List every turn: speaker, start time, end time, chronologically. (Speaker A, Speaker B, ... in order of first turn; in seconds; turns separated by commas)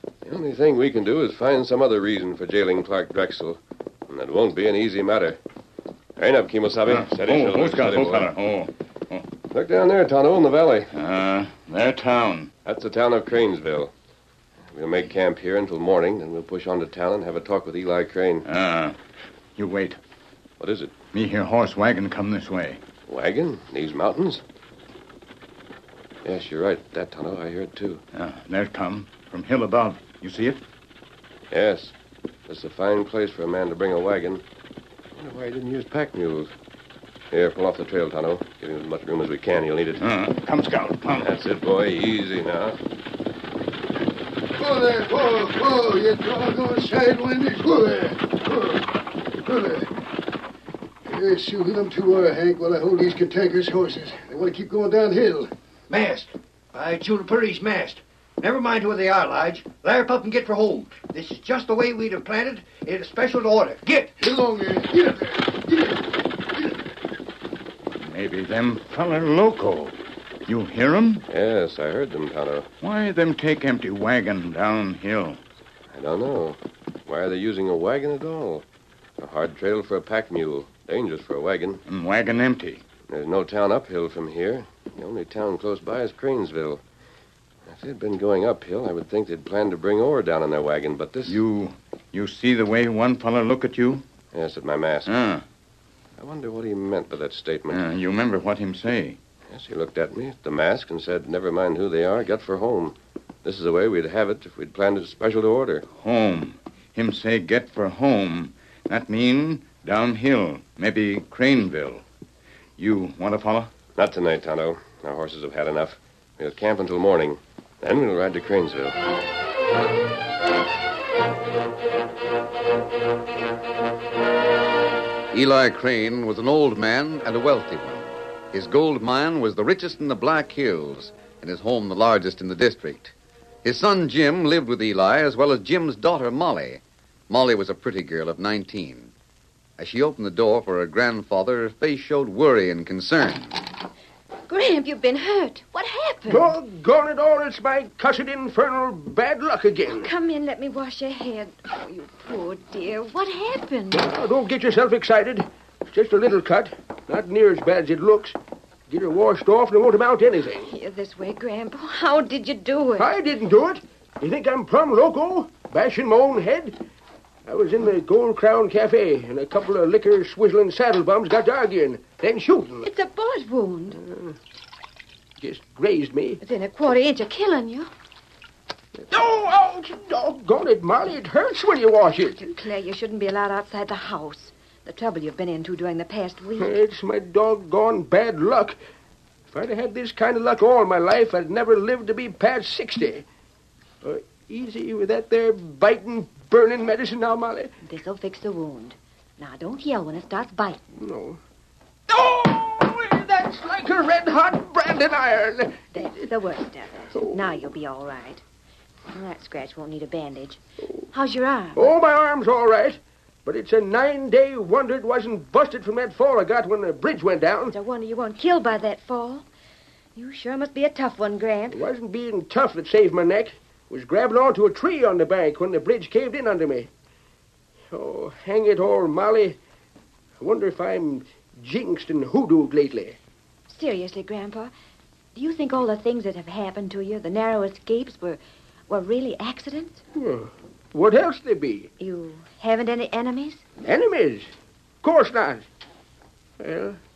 Speaker A: 0.2-5.4, Speaker A: 6.2-8.3, Speaker B: 6.9-9.2, Speaker A: 9.5-10.9, Speaker B: 10.9-12.5, Speaker A: 12.7-13.9, Speaker A: 14.7-18.4, Speaker B: 18.4-19.0, Speaker B: 19.6-20.0, Speaker A: 20.6-20.9, Speaker B: 21.1-22.8, Speaker A: 23.1-24.4, Speaker A: 26.2-28.0, Speaker B: 28.1-30.6, Speaker A: 31.5-31.9, Speaker A: 32.5-34.4, Speaker A: 35.1-36.5, Speaker A: 37.3-40.0, Speaker B: 40.0-41.3, Speaker A: 41.2-42.8, Speaker C: 44.6-49.9, Speaker C: 51.1-55.5, Speaker D: 55.9-64.1, Speaker C: 64.2-66.0, Speaker B: 68.0-70.0, Speaker B: 70.5-71.2, Speaker A: 71.3-72.7, Speaker B: 72.8-75.4, Speaker A: 75.9-78.6, Speaker A: 79.2-81.8, Speaker B: 81.8-82.8, Speaker A: 83.1-86.8, Speaker A: 87.7-91.4, Speaker B: 91.2-94.0, Speaker A: 94.3-95.1, Speaker B: 95.0-95.4, Speaker A: 96.2-97.8, Speaker B: 97.7-99.2, Speaker A: 99.5-105.8, Speaker B: 105.9-112.0, Speaker B: 112.8-113.7, Speaker A: 114.0-119.0, Speaker E: 125.3-139.1, Speaker E: 139.8-143.6, Speaker F: 144.5-146.5, Speaker G: 146.3-150.1, Speaker F: 149.9-154.1, Speaker G: 153.9-158.3, Speaker G: 158.9-160.7, Speaker F: 160.7-163.1, Speaker G: 163.0-166.8, Speaker G: 167.4-172.9, Speaker F: 172.8-174.0, Speaker G: 174.0-174.3, Speaker G: 175.4-176.4, Speaker F: 176.4-177.9, Speaker G: 179.0-182.4, Speaker F: 182.3-186.8, Speaker G: 186.6-188.8, Speaker G: 189.5-193.2, Speaker G: 194.0-197.7, Speaker F: 197.8-200.8, Speaker G: 200.9-201.4, Speaker G: 202.1-205.8, Speaker F: 205.9-208.4, Speaker G: 207.1-207.4, Speaker F: 209.1-211.9, Speaker G: 211.8-217.7, Speaker F: 217.7-219.4, Speaker F: 220.2-221.8, Speaker G: 221.7-226.9, Speaker G: 227.9-229.6, Speaker G: 230.4-233.2, Speaker F: 233.7-234.7, Speaker F: 235.3-240.0, Speaker G: 240.1-241.9, Speaker F: 242.0-243.6, Speaker G: 243.8-244.5, Speaker G: 245.0-245.7, Speaker G: 246.6-247.0